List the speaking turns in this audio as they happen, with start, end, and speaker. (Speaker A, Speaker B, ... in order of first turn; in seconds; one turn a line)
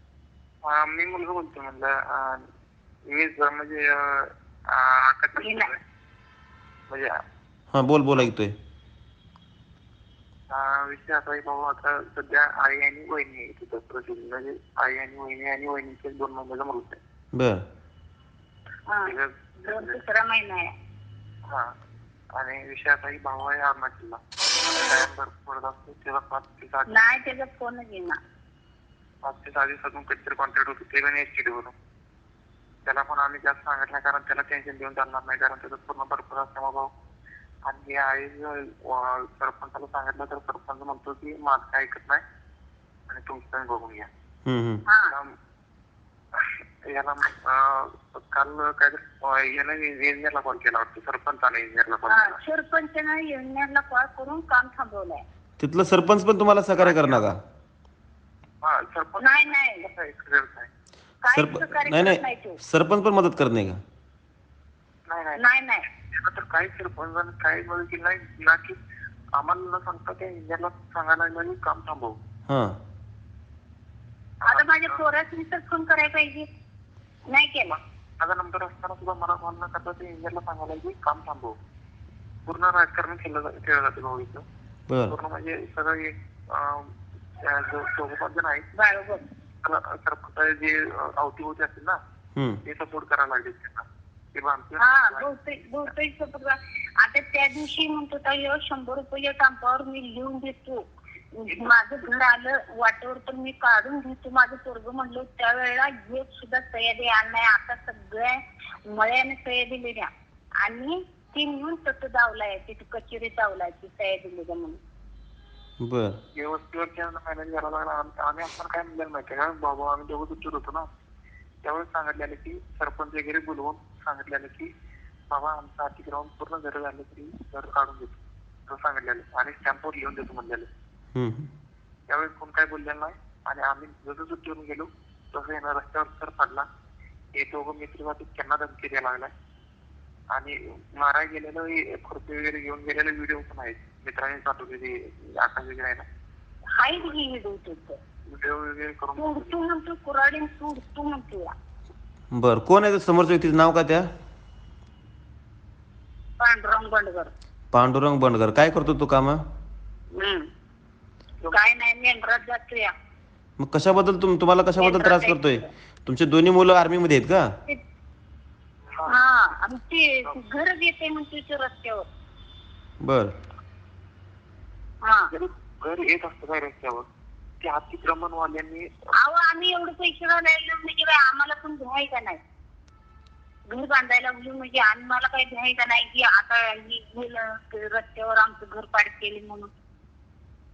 Speaker A: 0.6-2.4
Speaker A: 3.1-5.8
Speaker B: 7.7-8.5
Speaker A: 10.5-17.0
Speaker A: 19.1-20.0
Speaker C: 19.6-20.7
Speaker A: 22.4-27.0
Speaker C: 26.9-28.2
Speaker A: 29.2-31.7
Speaker A: 32.8-36.9
Speaker A: 37.6-42.2
Speaker A: 43.1-44.1
Speaker B: 44.5-44.8
Speaker A: 46.4-52.4
Speaker C: 52.1-55.2
Speaker B: 55.6-57.3
Speaker A: 56.8-57.3
Speaker A: 58.6-60.7
Speaker C: 59.2-59.8
Speaker C: 61.2-62.6
Speaker B: 61.3-63.8
Speaker A: 65.1-65.4
Speaker C: 65.4-65.8
Speaker A: 66.1-68.8
Speaker A: 69.4-72.2
Speaker C: 74.5-76.5
Speaker A: 74.5-75.0
Speaker C: 77.3-77.7
Speaker A: 77.7-81.5
Speaker A: 82.5-84.4
Speaker A: 85.1-86.9
Speaker A: 87.4-88.6
Speaker C: 88.8-89.2
Speaker A: 89.6-92.0
Speaker A: 92.6-95.3
Speaker C: 94.8-100.8
Speaker C: 101.4-108.3
Speaker C: 108.9-110.1
Speaker C: 110.6-114.8
Speaker B: 115.8-116.1
Speaker A: 116.4-120.9
Speaker A: 121.6-124.7
Speaker A: 125.3-130.7
Speaker B: 131.2-131.4
Speaker A: 132.1-136.7
Speaker A: 137.3-139.3
Speaker A: 140.3-146.0
Speaker C: 146.8-148.0
Speaker A: 148.3-149.6
Speaker C: 149.2-151.5
Speaker B: 152.3-154.0
Speaker C: 156.4-157.3
Speaker B: 157.7-159.4
Speaker C: 160.2-160.5
Speaker C: 161.5-162.9
Speaker B: 163.6-167.4
Speaker C: 164.8-165.7
Speaker C: 169.1-172.0
Speaker B: 173.0-173.3
Speaker A: 175.3-177.0
Speaker A: 177.6-178.9
Speaker C: 179.2-182.4
Speaker C: 183.7-189.7